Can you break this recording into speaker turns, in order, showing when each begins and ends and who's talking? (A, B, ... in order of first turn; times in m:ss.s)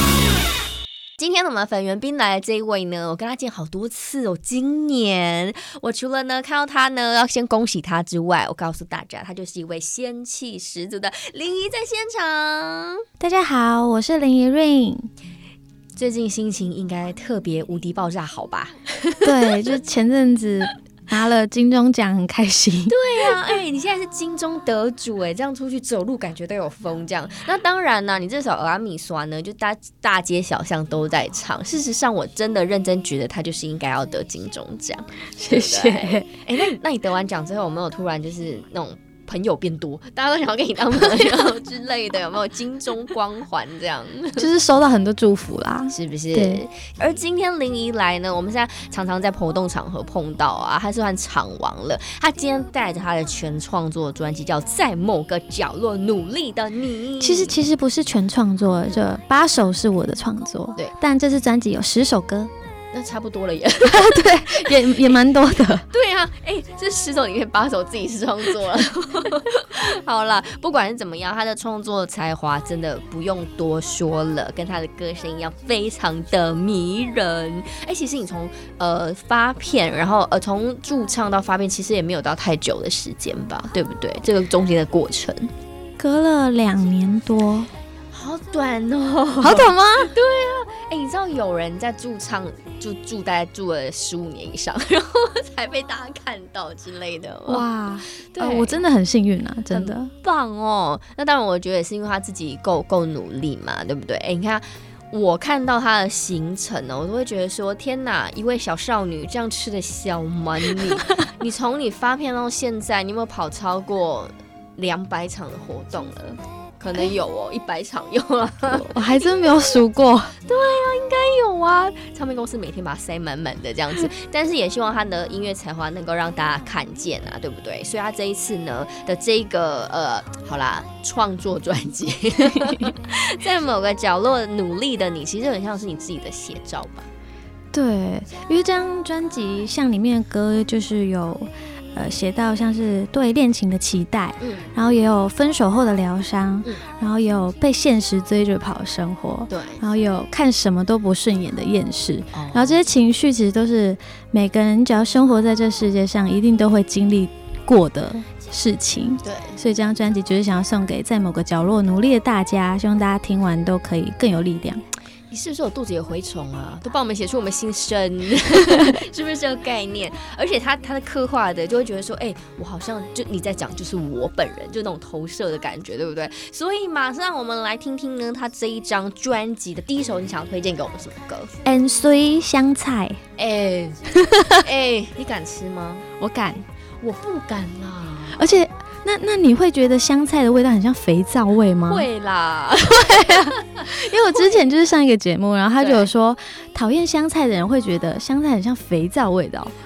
0:01.2-0:13.0 A
0:13.2-0:15.1 B
0:16.0-0:18.8 A
0:19.2-0:23.0 B
0:22.9-0:44.5 A
0:35.4-0:36.4 B
0:44.4-0:46.6 B
0:45.9-0:57.6 A
0:57.2-1:02.5 B
1:02.9-1:05.1 A
1:03.8-1:05.8 B
1:05.9-1:25.5 A
1:26.0-1:27.7 B
1:28.1-1:37.7 A
1:29.4-1:30.1 B
1:37.5-1:40.1 B
1:38.3-1:38.8 A
1:39.7-1:59.8 A
1:58.7-2:00.3 B
2:00.4-2:17.1 A
2:17.7-2:44.8 B
2:24.4-2:24.7 A
2:29.5-2:29.8 A
2:32.3-2:32.8 A
2:39.2-2:39.6 A
2:45.3-3:01.5 A
3:01.6-3:03.2 B
3:03.4-3:06.0 A
3:04.2-3:04.6 B
3:06.2-3:06.7 B
3:07.0-3:08.4 A
3:08.3-3:12.1 B
3:11.9-3:13.6 A
3:12.8-3:19.7 B
3:15.8-3:16.1 A